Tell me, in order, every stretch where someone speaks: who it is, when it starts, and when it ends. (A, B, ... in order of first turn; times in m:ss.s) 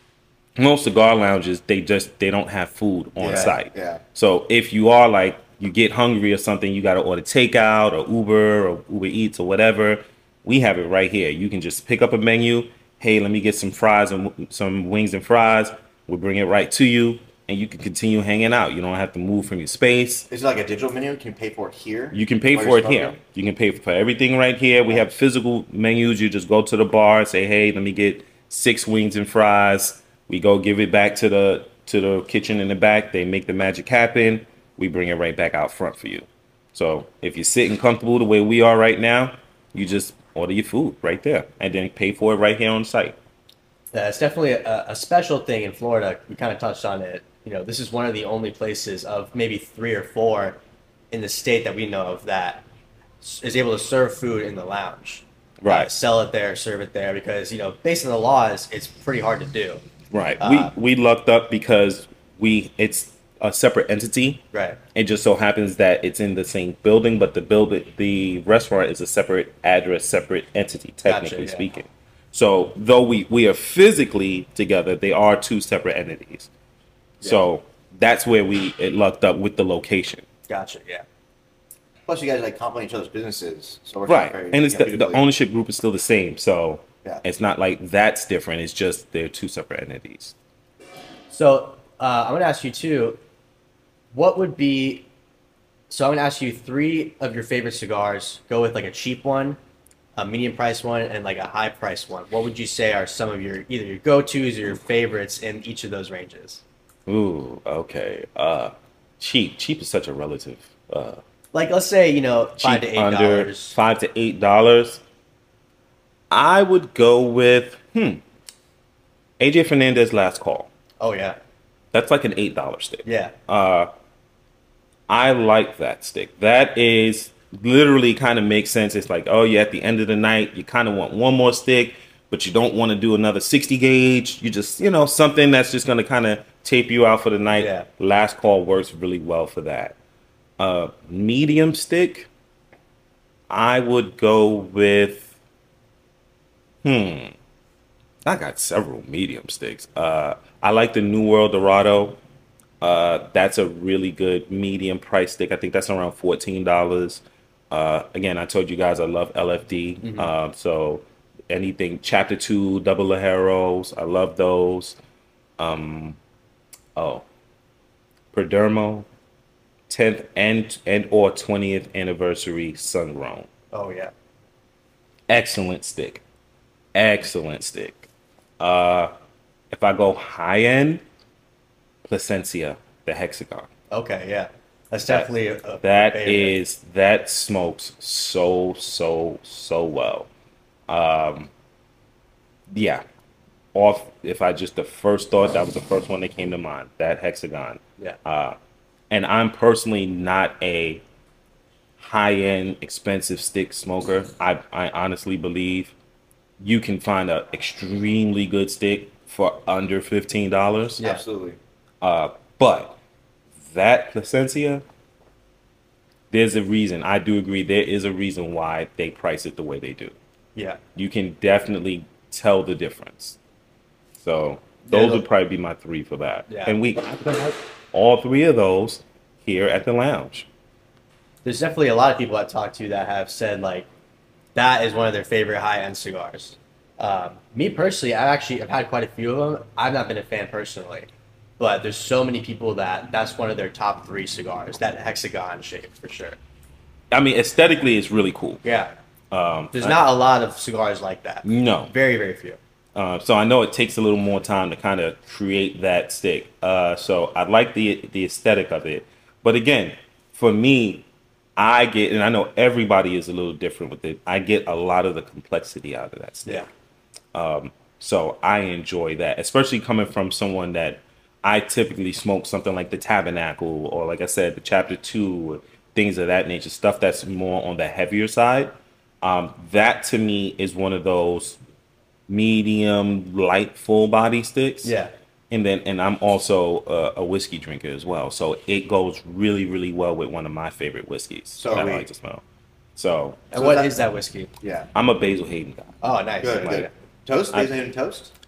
0:00.6-0:20.3 A
0:03.2-0:04.0 B
0:03.3-0:03.5 C
0:20.3-0:23.2 B
0:22.1-0:43.2 A
0:43.9-0:50.6 C
0:51.1-0:52.6 C
0:53.2-0:59.8 C
0:55.6-0:55.9 A
1:00.1-1:04.4 A
1:00.4-1:00.7 C
1:04.5-1:04.8 C
1:04.9-1:16.5 A
1:11.1-1:11.7 C
1:17.2-1:20.2 A
1:20.5-1:21.0 C
1:22.1-1:25.2 B
1:24.1-1:30.3 A
1:31.3-1:33.2 C
1:34.1-1:35.0 C
1:35.9-1:39.6 C
1:40.2-1:46.6 C
1:47.1-1:51.2 A
1:51.5-1:53.8 C
1:52.6-1:55.0 A
1:56.3-1:58.2 A
1:59.4-2:00.7 A
2:01.0-2:01.4 C
2:01.9-2:03.9 A
2:03.0-2:03.3 C
2:05.1-2:20.0 A
2:17.6-2:17.9 C
2:20.6-2:22.3 A
2:23.5-2:25.3 A
2:26.8-2:27.3 A
2:28.2-2:32.2 A
2:32.8-2:45.0 A
2:40.0-2:40.3 C
2:45.6-2:46.2 A
2:47.0-2:47.2 A
2:48.3-2:49.0 A
2:49.9-2:53.5 A
2:53.7-2:54.1 C
2:55.3-2:56.2 A
2:56.9-2:58.1 A
2:58.6-2:59.1 A
2:59.7-3:01.0 A
3:02.0-3:03.7 A
3:03.9-3:06.6 C
3:05.8-3:10.3 A
3:10.9-3:11.5 A
3:12.7-3:13.0 A
3:13.7-3:18.6 A
3:19.1-3:21.0 A
3:22.0-3:25.9 A
3:26.6-3:31.0 A
3:31.0-3:31.6 B
3:32.0-3:33.0 A
3:33.6-3:34.8 A
3:36.3-3:40.2 A
3:40.6-3:40.8 C
3:41.0-3:43.4 A
3:44.2-3:50.5 A
3:44.9-3:45.2 C
3:46.5-3:46.7 C
3:51.4-3:53.9 C
3:54.6-4:01.1 C
4:01.6-4:06.4 C
4:07.1-4:08.6 A
4:08.6-4:08.9 C
4:09.3-4:10.0 A
4:09.7-4:12.6 C
4:11.4-4:11.9 A
4:13.0-4:21.0 A
4:21.6-4:26.7 A
4:27.3-4:41.6 A
4:42.3-4:44.9 A
4:44.8-4:45.1 C
4:45.5-4:52.4 A
4:51.6-4:52.1 B
4:53.0-4:53.4 A
4:53.5-4:54.5 C
4:53.5-4:54.0 B
4:54.6-4:54.9 B
4:54.9-4:56.9 A
4:56.0-4:56.9 C
4:56.4-4:58.3 B